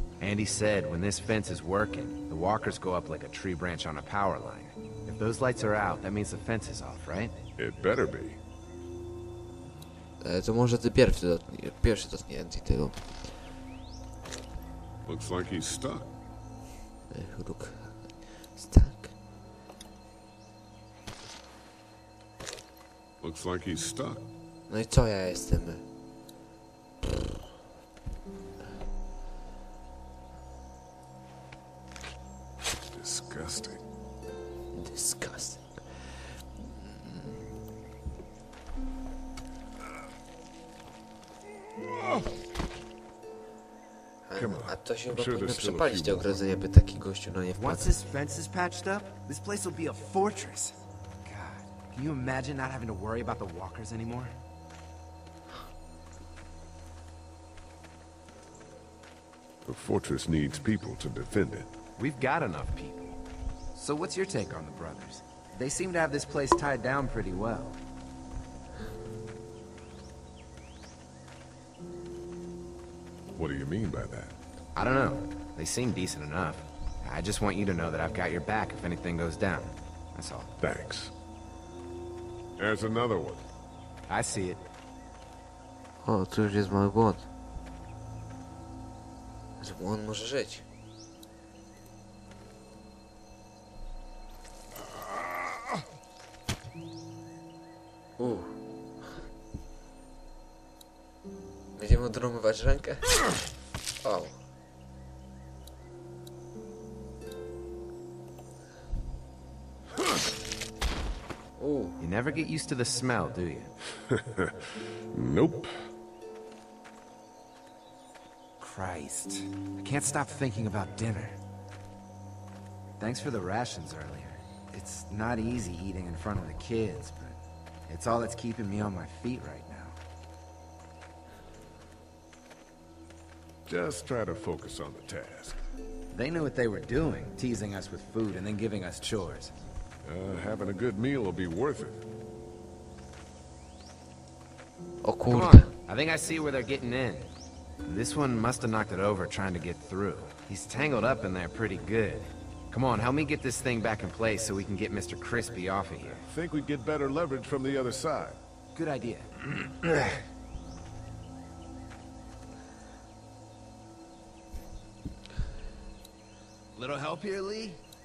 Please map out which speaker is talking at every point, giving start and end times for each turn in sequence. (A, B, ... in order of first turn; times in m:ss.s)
0:00.2-0:07.4 A
0:07.6-0:08.4 B
0:10.2-0:13.4 C
0:15.0-0:16.1 B
0:17.1-0:19.1 C
0:23.2-0:24.2 B
0:24.7-0:25.8 C
0:32.9-0:33.8 B
0:34.7-0:37.5 C
0:41.8-0:42.2 B
0:44.3-0:48.0 C
0:44.3-0:46.4 B
0:47.6-0:54.3 A
0:59.6-1:01.7 B
1:02.0-1:03.2 A
1:03.7-1:07.8 A
1:13.3-1:14.4 B
1:14.7-1:20.5 A
1:20.6-1:21.1 B
1:22.6-1:23.4 B
1:24.1-1:24.6 A
1:26.0-1:27.3 C
1:29.6-1:30.6 C
1:38.2-1:38.6 C
1:41.8-1:43.2 C
1:44.0-1:44.4 C
1:51.6-1:52.0 C
1:52.0-1:53.7 A
1:54.1-1:54.5 B
1:55.1-1:55.7 B
1:58.6-2:01.4 A
2:03.0-2:10.0 A
2:13.6-2:15.6 B
2:16.1-2:19.5 A
2:20.0-2:22.0 B
2:25.0-2:25.7 C
2:25.2-2:27.3 A
2:27.8-2:36.2 A
2:36.3-2:38.4 B
2:38.7-2:39.3 A
2:46.7-2:47.8 A